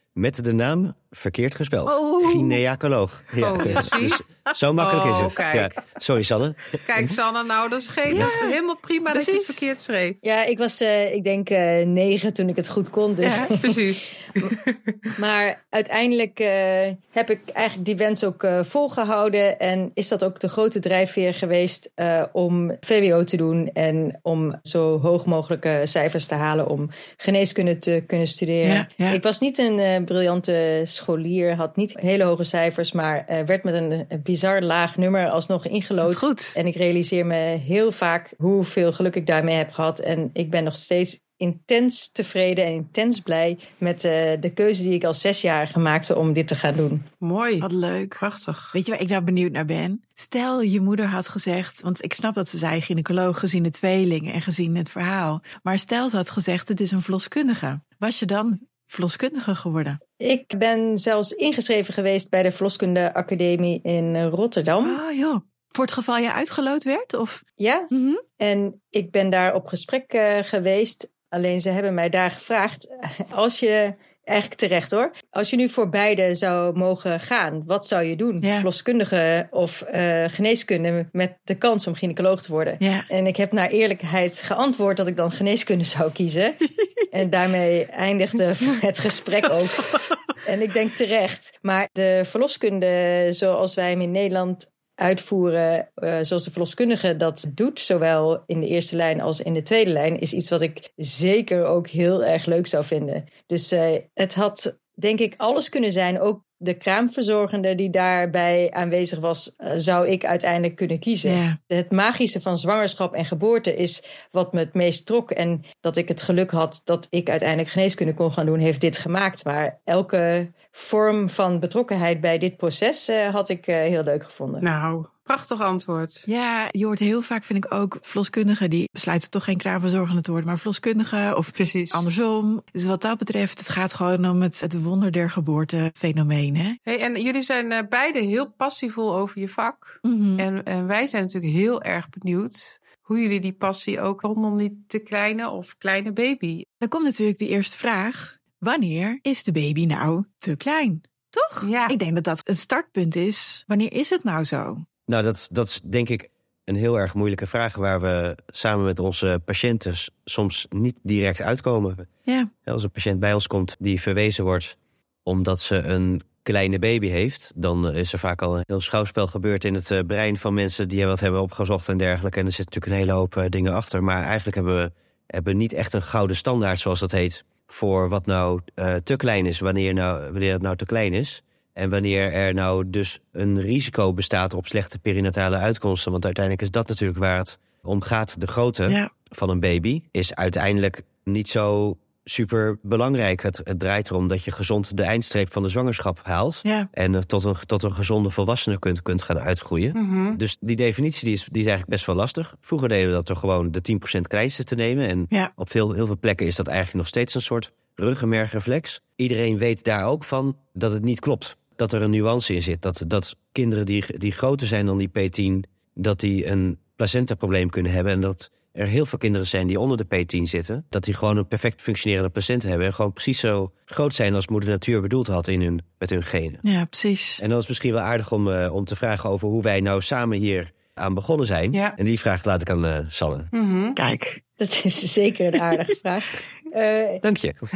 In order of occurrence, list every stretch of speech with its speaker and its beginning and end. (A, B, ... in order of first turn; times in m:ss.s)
0:00.2-0:07.2 A
0:01.9-0:02.6 B
0:03.4-0:04.2 C
0:04.8-0:05.8 C
0:06.9-0:10.2 C
0:08.1-0:08.6 B
0:09.1-0:09.7 B
0:10.2-0:13.8 D
0:13.3-0:14.9 C
0:15.2-0:47.1 D
0:28.6-0:29.2 B
0:36.0-0:36.6 B
0:47.2-0:48.8 C
0:47.6-1:00.0 B
1:00.2-1:05.0 D
1:04.8-1:08.2 B
1:07.6-2:04.6 D
1:22.8-1:23.1 B
1:51.2-1:51.6 B
2:04.6-2:06.3 C
2:06.3-2:16.8 B
2:11.6-2:12.0 C
2:16.9-2:26.7 C
2:20.0-2:20.5 B
2:26.8-2:34.9 B
2:31.6-2:32.0 C
2:35.1-2:42.1 A
2:42.6-3:46.6 A
3:19.9-3:20.4 C
3:46.6-3:47.4 B
3:47.4-3:53.5 A
3:53.5-3:54.0 C
3:54.0-3:54.4 B
3:54.6-3:57.2 D
3:57.2-3:57.6 A